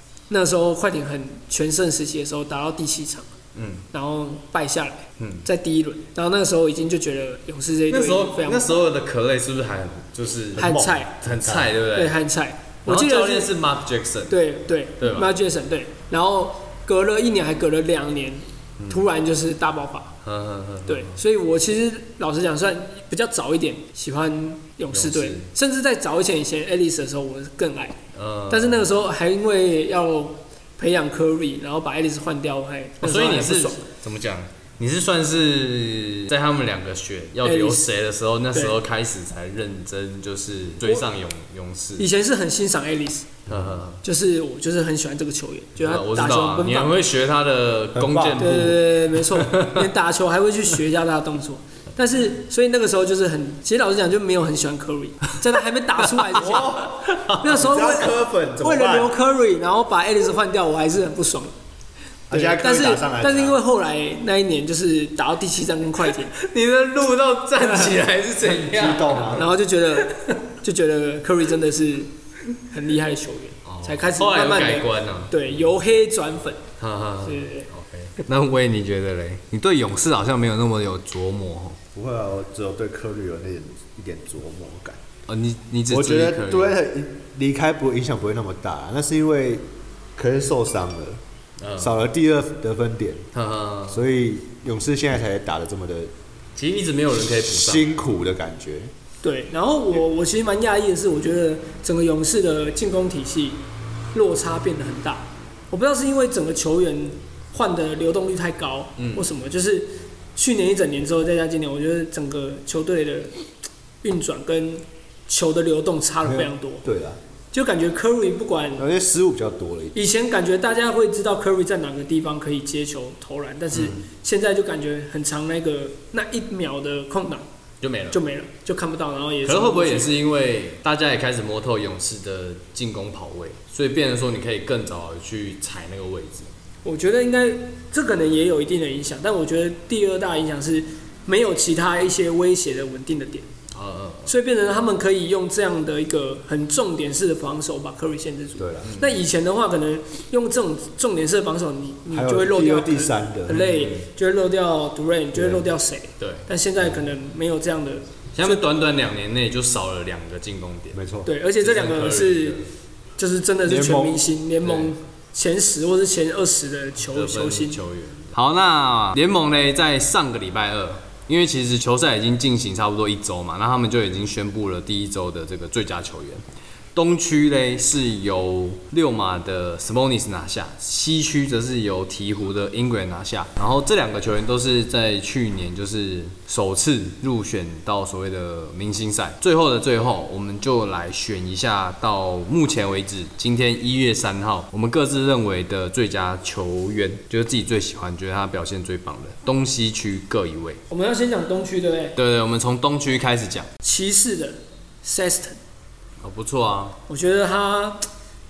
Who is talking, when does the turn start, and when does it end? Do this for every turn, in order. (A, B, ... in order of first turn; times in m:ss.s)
0:00.3-0:03.3 A
0:03.5-0:03.8 B
0:03.9-0:08.7 A
0:05.2-0:05.5 B
0:07.9-0:12.1 B
0:10.6-0:11.7 C
0:10.6-0:11.2 A
0:11.9-0:13.5 A
0:12.8-0:14.4 B
0:14.3-0:20.1 A
0:15.0-0:15.3 B
0:20.2-0:21.2 B
0:20.9-0:28.0 A
0:24.9-0:25.5 B
0:28.1-0:28.8 B
0:28.5-0:33.8 A
0:33.0-0:42.1 B
0:37.4-0:37.9 A
0:42.0-0:43.3 A
0:43.5-0:44.0 B
0:43.5-0:43.8 C
0:44.0-0:47.0 A
0:45.8-0:49.9 B
0:47.9-0:48.5 C
0:48.4-1:01.5 A
0:56.0-0:57.6 B
0:56.4-0:59.1 C
1:02.3-1:03.6 C
1:02.3-1:06.3 A
1:06.3-1:09.4 B
1:07.6-1:07.9 A
1:08.5-1:09.5 C
1:09.3-1:12.1 A
1:12.6-1:16.6 A
1:13.6-1:15.5 B
1:16.8-1:21.8 B
1:17.2-1:17.7 A
1:21.9-1:25.0 C
1:25.3-1:26.8 B
1:25.9-1:31.2 C
1:31.6-1:32.0 B
1:31.8-1:33.3 C
1:33.3-1:34.0 B
1:33.9-1:36.1 C
1:36.6-1:37.8 B
1:37.4-1:38.9 C
1:39.2-1:43.6 A
1:44.1-1:53.4 A
1:49.0-1:49.3 B
1:54.0-1:56.8 A
1:56.2-1:57.2 C
1:57.5-1:58.8 A
1:58.8-2:00.0 C
1:59.9-2:07.4 A
2:03.7-2:04.0 B
2:07.8-2:08.2 B
2:08.1-2:10.1 A
2:09.4-2:16.5 B
2:16.8-2:23.5 A
2:23.7-2:24.3 B
2:24.3-2:38.6 A
2:28.6-2:28.9 C
2:28.8-2:29.2 B
2:32.1-2:33.7 C
2:33.5-2:34.1 B
2:35.3-2:35.7 C
2:36.2-2:36.5 B
2:38.3-2:41.0 B
2:40.9-2:41.3 C
2:41.2-2:42.6 A
2:41.6-2:42.7 B
2:43.2-2:47.8 A
2:43.6-2:44.2 C
2:44.6-2:44.9 B
2:47.1-2:56.4 B
2:56.9-3:20.8 B
3:20.9-3:22.2 A
3:22.2-3:23.7 B
3:23.8-3:25.6 A
3:26.2-3:27.0 B
3:27.1-3:28.0 A